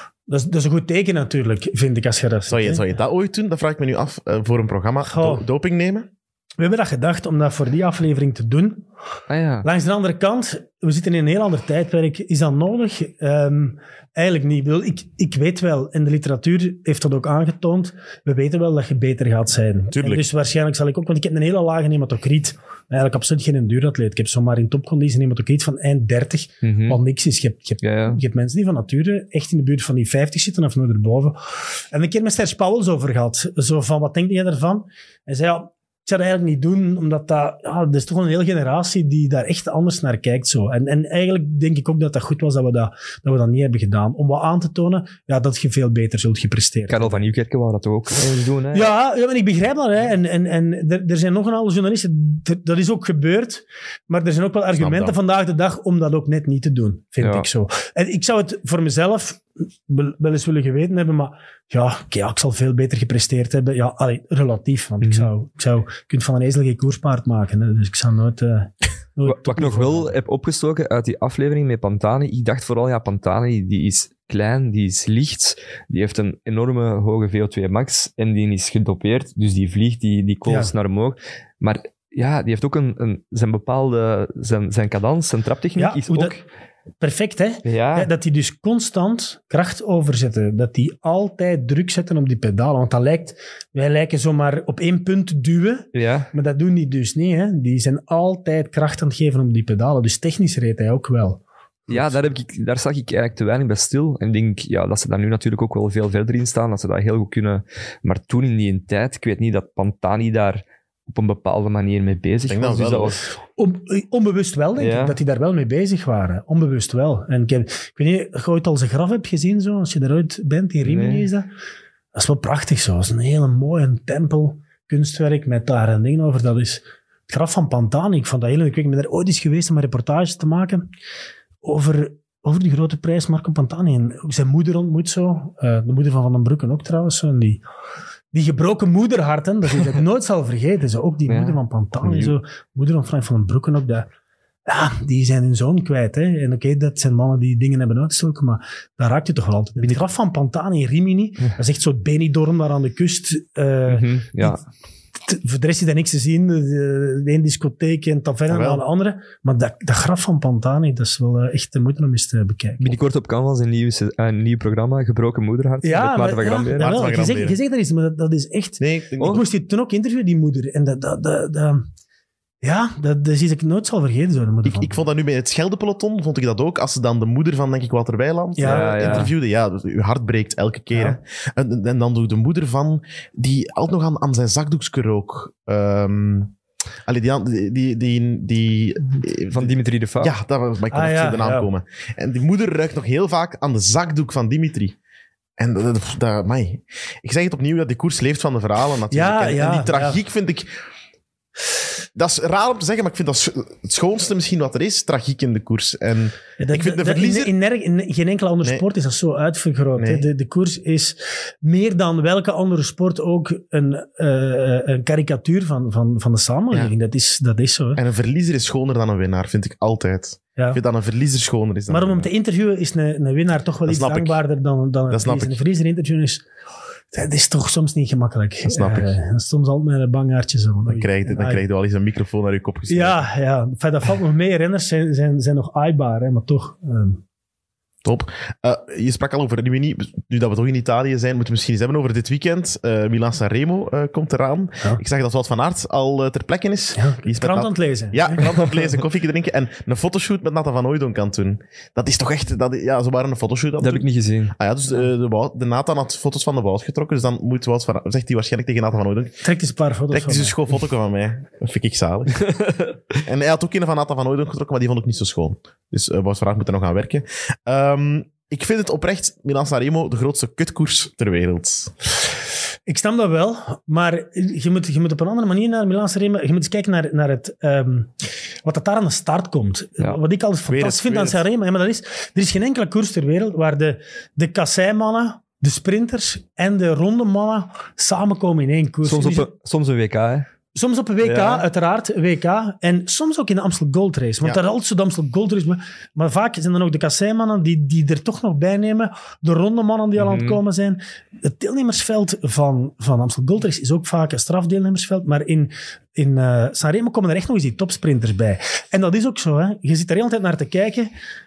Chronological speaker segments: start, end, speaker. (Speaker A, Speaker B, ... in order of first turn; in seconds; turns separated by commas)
Speaker A: 0.3-2.8, Speaker B: 2.5-6.1, Speaker A: 5.1-5.4, Speaker A: 6.6-8.8, Speaker C: 9.3-9.7, Speaker A: 9.6-47.1, Speaker B: 19.9-20.2, Speaker C: 26.6-27.0, Speaker C: 27.8-28.2, Speaker C: 46.9-48.9, Speaker A: 48.7-70.1, Speaker B: 54.8-55.1, Speaker C: 57.2-57.5, Speaker C: 65.0-65.3, Speaker C: 69.2-86.4, Speaker A: 80.5-80.7, Speaker A: 85.8-86.3, Speaker A: 87.0-102.1, Speaker C: 87.6-88.1, Speaker C: 95.9-96.3, Speaker C: 101.9-113.2, Speaker B: 112.5-113.2, Speaker A: 113.6-121.5, Speaker C: 114.8-115.2, Speaker C: 120.8-121.3, Speaker A: 122.1-130.8, Speaker A: 131.6-137.6, Speaker A: 138.3-144.1, Speaker C: 141.3-142.3, Speaker A: 144.7-154.6, Speaker C: 149.8-150.0, Speaker C: 153.9-154.6, Speaker A: 155.3-163.0, Speaker B: 158.5-158.8, Speaker C: 162.8-167.0, Speaker A: 165.8-171.9, Speaker B: 166.8-167.6, Speaker B: 168.8-169.4, Speaker A: 172.6-175.0, Speaker B: 174.6-186.5, Speaker A: 178.6-179.3, Speaker C: 178.6-179.3, Speaker B: 187.1-194.9, Speaker C: 189.5-190.3, Speaker A: 190.9-191.7, Speaker B: 195.6-200.7, Speaker A: 199.1-200.2, Speaker B: 202.1-207.5, Speaker A: 206.6-218.0, Speaker B: 210.0-210.3, Speaker B: 217.9-222.3, Speaker A: 221.9-226.4, Speaker B: 223.8-224.4, Speaker B: 225.1-225.6, Speaker A: 227.1-231.6, Speaker B: 228.6-229.1, Speaker B: 230.9-233.2, Speaker A: 232.9-237.2, Speaker B: 238.0-259.4, Speaker A: 246.9-248.5, Speaker C: 253.8-254.5, Speaker A: 259.4-260.6, Speaker B: 260.1-262.5, Speaker B: 263.2-271.9, Speaker A: 272.9-289.5, Speaker B: 280.7-281.4, Speaker C: 289.0-290.5, Speaker A: 290.7-311.1, Speaker C: 291.2-291.6, Speaker C: 300.2-300.6